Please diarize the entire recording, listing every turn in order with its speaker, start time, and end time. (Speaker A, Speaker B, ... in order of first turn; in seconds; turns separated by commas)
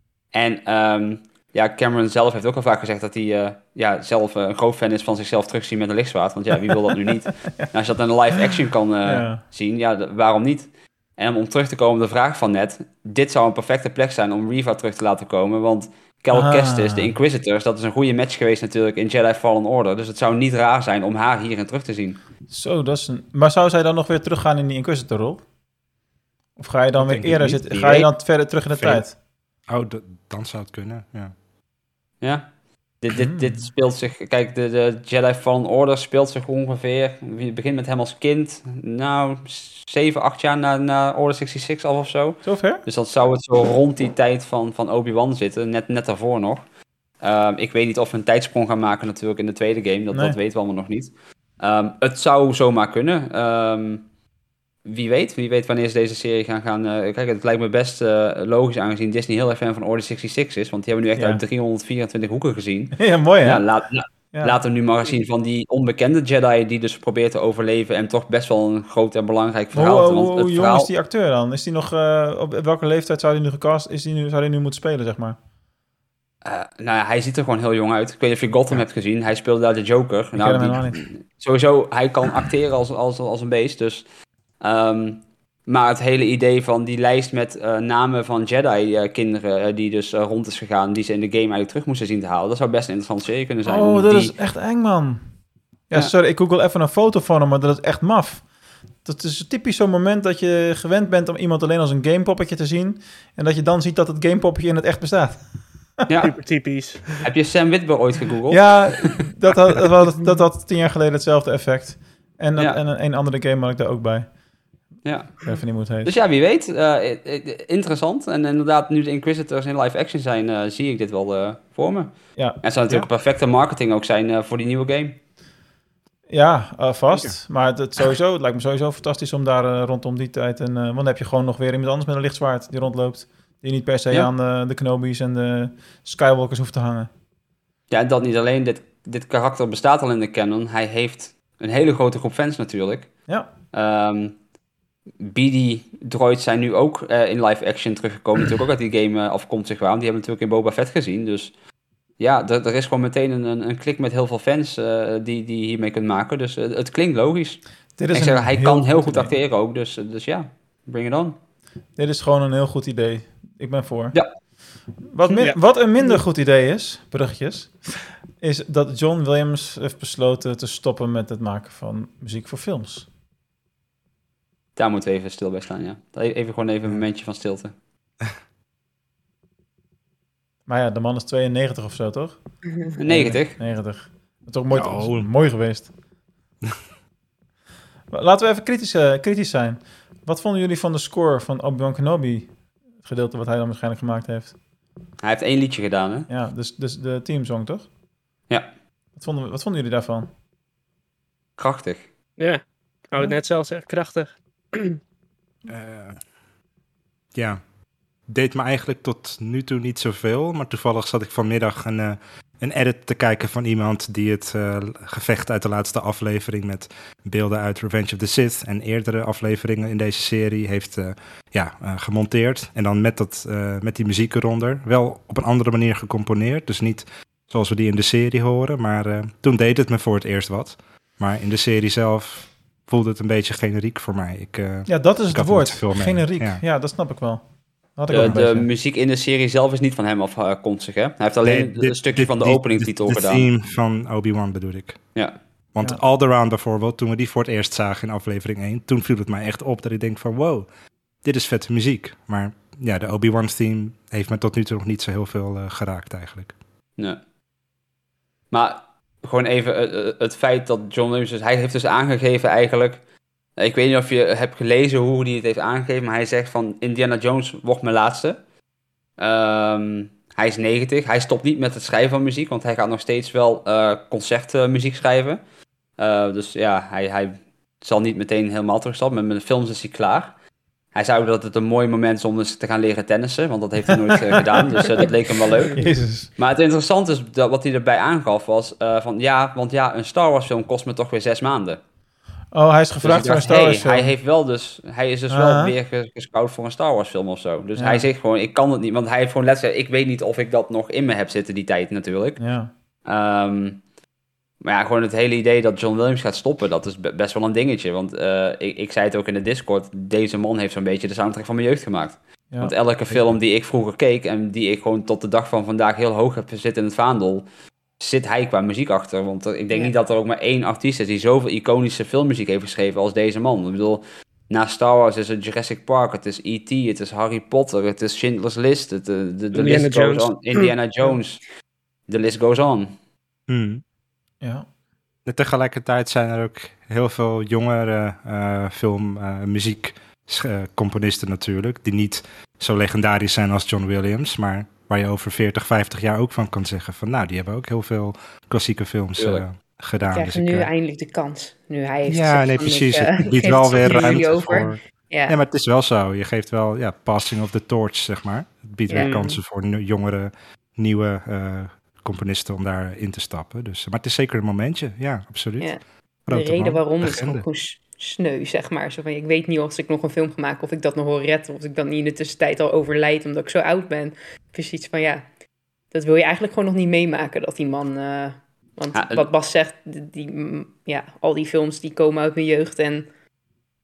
Speaker A: 0.3-22.2, Speaker B: 9.0-9.4, Speaker B: 16.3-17.1, Speaker B: 22.5-25.4, Speaker B: 26.6-29.2, Speaker C: 27.0-27.6, Speaker A: 27.6-28.1, Speaker C: 29.7-31.3, Speaker A: 32.2-46.6, Speaker B: 33.1-33.7, Speaker B: 42.4-42.8, Speaker A: 47.2-54.1, Speaker B: 50.1-50.4, Speaker A: 54.9-70.9, Speaker B: 61.2-61.4, Speaker B: 63.0-63.6, Speaker B: 64.3-64.6, Speaker B: 69.7-75.4, Speaker A: 76.4-84.1, Speaker B: 80.3-81.1, Speaker A: 84.6-94.3, Speaker B: 93.6-95.2, Speaker B: 95.9-98.5, Speaker B: 99.0-106.1, Speaker A: 106.1-106.4, Speaker D: 106.2-107.2, Speaker A: 107.2-109.1, Speaker B: 108.5-114.3, Speaker A: 115.0-115.5, Speaker B: 115.5-116.1, Speaker A: 116.0-125.2, Speaker B: 122.3-123.0, Speaker B: 126.3-137.1, Speaker A: 137.9-143.2, Speaker B: 143.3-143.5, Speaker A: 143.7-144.4, Speaker A: 145.2-151.5, Speaker A: 152.2-161.4, Speaker B: 158.0-159.3, Speaker B: 162.0-164.2, Speaker B: 165.1-173.1, Speaker A: 174.8-177.8, Speaker B: 180.7-185.9, Speaker A: 183.0-183.6, Speaker C: 184.7-185.2, Speaker B: 188.1-194.6, Speaker A: 195.2-196.3, Speaker B: 196.3-197.9, Speaker B: 199.2-200.3, Speaker A: 201.6-202.1, Speaker D: 202.4-205.0, Speaker C: 205.7-206.2, Speaker C: 207.3-207.6, Speaker C: 208.3-236.6, Speaker B: 234.9-238.7, Speaker A: 238.1-243.5, Speaker C: 241.4-245.1, Speaker A: 245.2-245.4, Speaker C: 245.7-250.7, Speaker C: 251.2-256.6, Speaker A: 258.5-263.0, Speaker A: 263.6-268.4, Speaker A: 269.2-275.4, Speaker A: 276.0-280.4, Speaker A: 280.9-285.8, Speaker B: 285.7-286.3, Speaker A: 286.4-291.8, Speaker B: 292.5-294.1, Speaker A: 293.0-302.4, Speaker B: 295.3-295.8, Speaker B: 297.8-298.1, Speaker B: 302.4-302.7, Speaker A: 303.1-303.8, Speaker A: 304.6-317.5, Speaker A: 318.0-331.4, Speaker D: 329.5-330.7, Speaker A: 332.1-332.9, Speaker C: 333.5-333.8, Speaker B: 334.4-334.7, Speaker C: 335.3-350.7, Speaker A: 349.2-349.4, Speaker E: 350.1-355.4, Speaker C: 352.1-367.4, Speaker E: 358.9-359.1, Speaker D: 359.0-359.4, Speaker E: 365.6-375.2, Speaker E: 375.9-383.1, Speaker A: 378.9-379.3